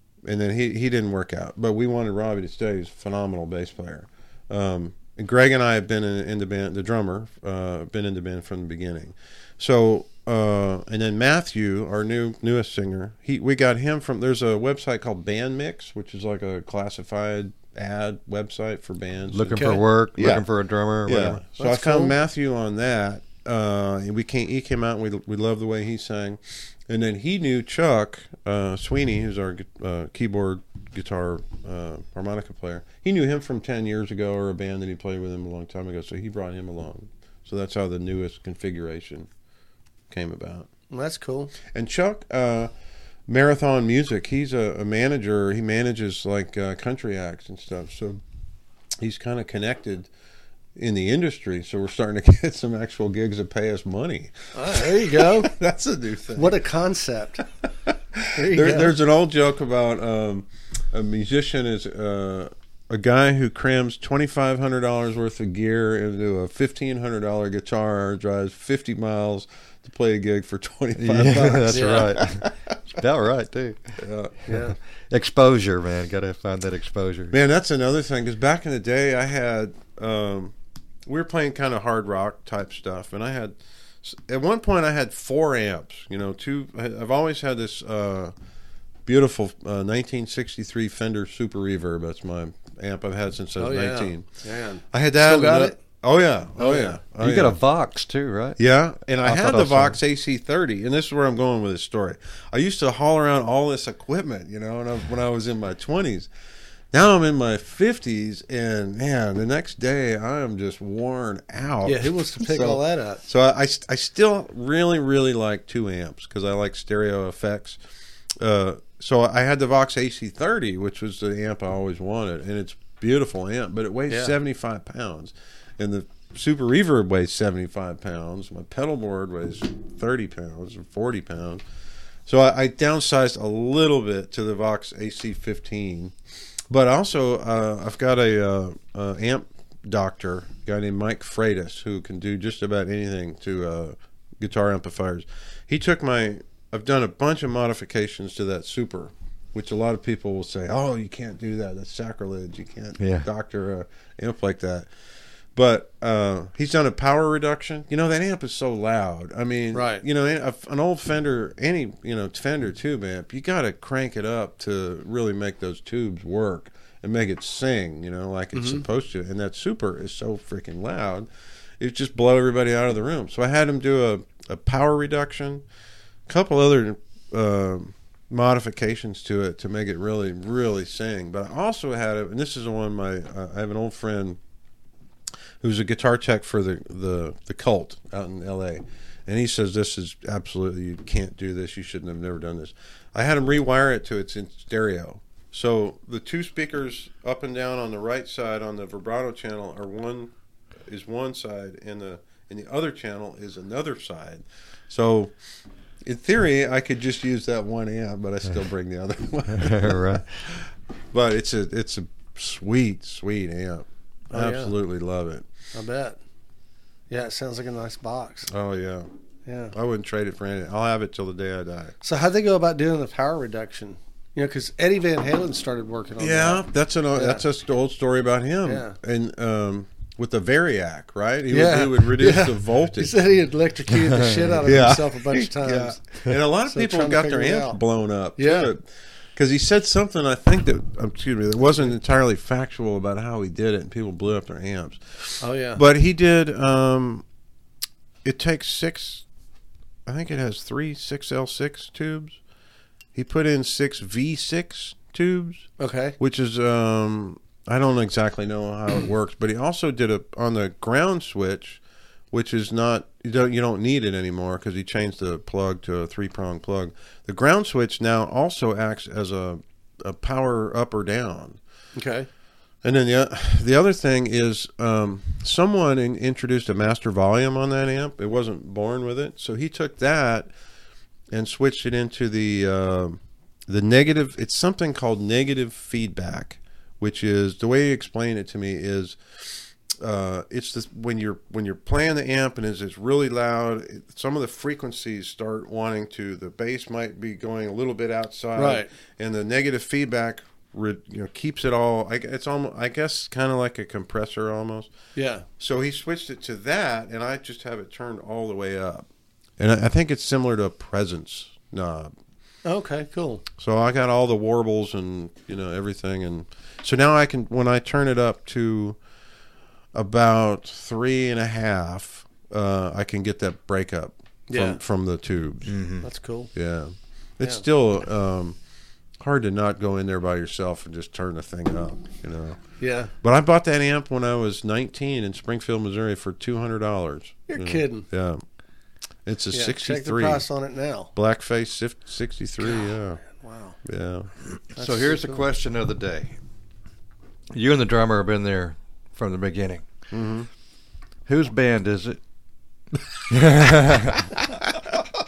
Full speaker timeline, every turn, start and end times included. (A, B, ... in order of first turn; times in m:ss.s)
0:00.2-0:20.5 A
0:19.3-0:21.4 B
0:19.5-0:19.8 C
0:21.0-0:39.3 A
0:21.6-0:22.1 C
0:40.1-0:40.7 A
0:40.9-0:41.5 C
0:41.7-0:42.7 A
0:43.3-0:48.2 A
0:49.0-0:50.1 A
0:50.8-0:56.6 A
0:54.5-0:55.5 C
0:56.4-0:57.4 C
0:57.9-1:12.7 A
0:58.3-0:59.0 C
1:11.0-1:14.0 B
1:11.7-1:12.2 C
1:14.0-1:14.4 A
1:14.4-1:14.8 C
1:15.1-1:17.3 B
1:17.3-1:20.5 A
1:21.0-1:28.3 A
1:29.0-1:34.2 A
1:33.6-1:35.8 C
1:34.9-1:37.6 A
1:36.6-1:37.0 C
1:37.2-1:38.6 B
1:38.6-1:46.3 A
1:39.2-1:40.0 B
1:46.9-1:57.8 A
1:51.8-1:53.2 C
1:58.4-2:11.6 A
2:04.1-2:04.3 C
2:12.2-2:16.1 A
2:16.7-2:34.9 A
2:33.0-2:33.3 B
2:35.5-2:51.3 A
2:39.7-2:40.0 C
2:48.5-2:48.8 C
2:51.8-2:55.6 A
2:56.3-3:04.4 A
3:05.6-3:20.3 A
3:20.8-3:25.3 A
3:26.0-3:35.5 A
3:29.5-3:30.3 B
3:34.3-3:34.7 C
3:35.7-3:36.2 C
3:37.1-3:38.5 C
3:38.5-3:39.1 A
3:39.4-3:39.7 C
3:39.7-3:41.9 A
3:42.0-3:47.4 C
3:46.2-3:53.2 A
3:48.6-3:49.0 C
3:51.5-3:56.0 C
3:54.1-3:54.5 B
3:54.6-3:58.8 A
3:56.7-3:57.8 C
3:58.4-3:58.7 C
3:59.3-4:07.2 A
4:05.4-4:05.8 C
4:08.2-4:09.2 A
4:10.0-4:12.4 A
4:13.1-4:21.8 A
4:15.8-4:16.2 C
4:22.3-4:31.6 A
4:32.0-4:32.3 C
4:32.8-4:40.5 A
4:41.3-5:04.9 A
4:58.6-4:58.9 C
5:05.2-5:05.4 C
5:05.6-5:09.1 A
5:09.6-5:12.1 A
5:12.6-5:13.4 C
5:13.6-5:19.0 A
5:19.9-5:25.7 A
5:24.5-5:24.8 C
5:25.7-5:26.0 B
5:26.0-5:26.5 C
5:26.5-5:28.6 A
5:29.2-5:32.6 A
5:32.8-5:33.1 C
5:33.2-5:38.4 A
5:37.5-5:38.0 C
5:39.2-5:40.4 A
5:39.5-5:41.1 C
5:41.1-5:43.2 A
5:43.2-5:43.8 C
5:43.8-5:44.3 A
5:44.8-5:45.4 C
5:44.8-5:46.4 B
5:47.5-5:49.8 B
5:50.1-5:50.5 A
5:51.3-5:52.2 B
5:53.3-5:54.3 B
5:54.4-5:54.7 A